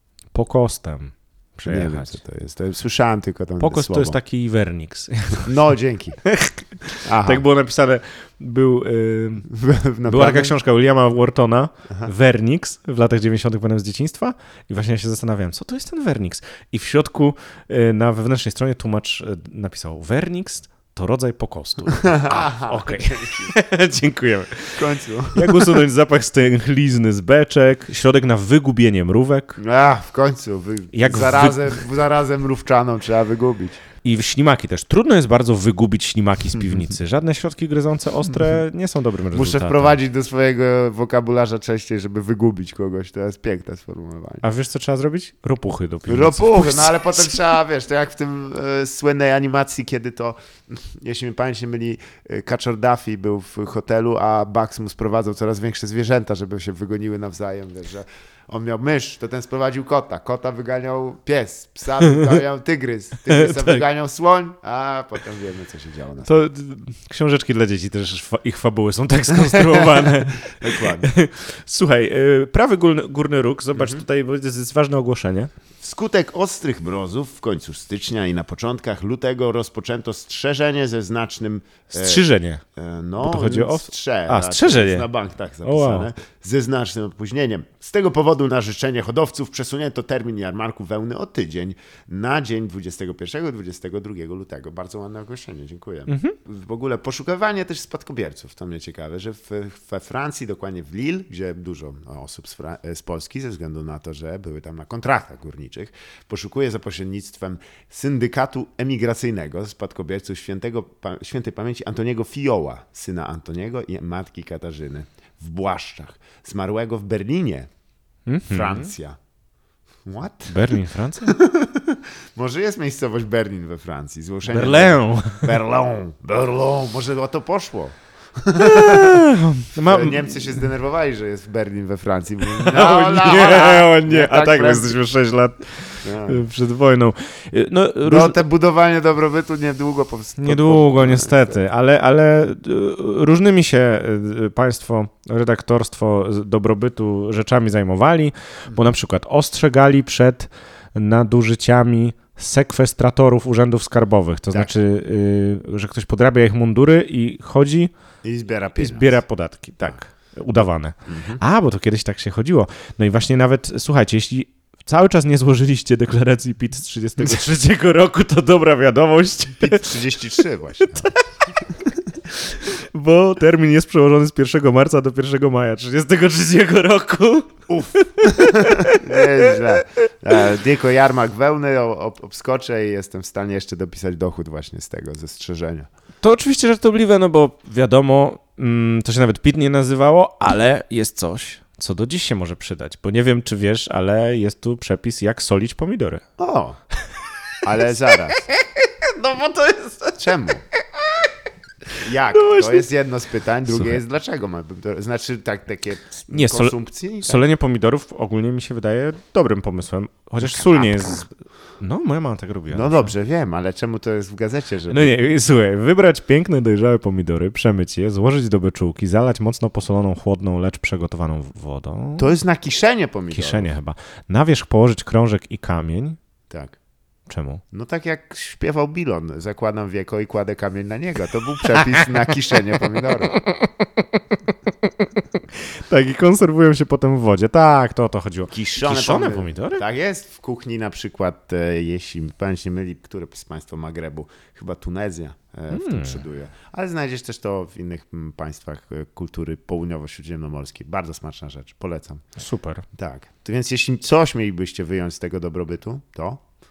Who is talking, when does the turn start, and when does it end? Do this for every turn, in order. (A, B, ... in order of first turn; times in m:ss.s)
0:00.3-0:02.2 A
0:01.6-0:04.2 B
0:03.6-0:05.6 A
0:05.4-0:06.2 B
0:06.2-0:09.5 A
0:07.0-0:07.4 B
0:09.5-0:10.6 B
0:10.1-0:29.6 A
0:22.0-0:23.5 B
0:24.8-0:25.8 B
0:29.6-0:33.8 B
0:30.9-0:31.8 A
0:34.0-0:40.0 A
0:36.5-0:36.9 B
0:38.3-0:38.6 B
0:39.3-0:44.4 B
0:44.4-0:47.4 A
0:46.1-1:06.4 B
1:02.0-1:02.4 A
1:03.3-1:03.8 A
1:06.2-1:15.5 A
1:09.6-1:11.1 B
1:13.7-1:14.0 B
1:15.8-1:22.2 B
1:21.9-1:22.6 A
1:22.8-1:57.7 B
1:23.2-1:25.1 A
1:25.6-1:26.1 A
1:36.1-1:36.4 A
1:58.3-1:58.9 A
1:58.5-1:59.2 B
2:00.0-2:00.6 B
2:00.5-2:01.3 A
2:01.3-2:09.2 B
2:04.5-2:05.5 A
2:08.6-2:10.6 A
2:09.8-2:15.0 B
2:12.5-2:18.4 A
2:16.0-2:16.4 B
2:18.0-2:21.6 B
2:20.4-2:37.9 A
2:38.2-2:39.2 B
2:38.8-2:50.1 A
2:41.1-2:41.4 B
2:49.6-2:51.1 B
2:52.3-2:57.7 A
2:57.7-3:05.9 B
2:58.2-2:59.2 A
3:06.2-3:16.2 A
3:16.4-3:16.8 B
3:17.6-3:18.4 B
3:19.0-3:20.2 A
3:20.2-3:20.6 B
3:22.0-3:27.4 B
3:22.3-3:22.9 A
3:23.7-3:24.0 A
3:26.3-3:33.1 A
3:30.4-3:31.2 B
3:32.7-3:35.1 B
3:34.9-3:42.3 A
3:42.2-3:43.7 B
3:43.3-3:46.2 A
3:46.5-3:46.8 B
3:47.3-3:47.6 A
3:47.7-3:53.4 B
3:53.3-3:53.8 A
3:55.8-3:59.8 A
3:58.5-4:12.2 B
4:05.7-4:06.2 A
4:12.4-4:12.8 A
4:12.9-4:16.4 B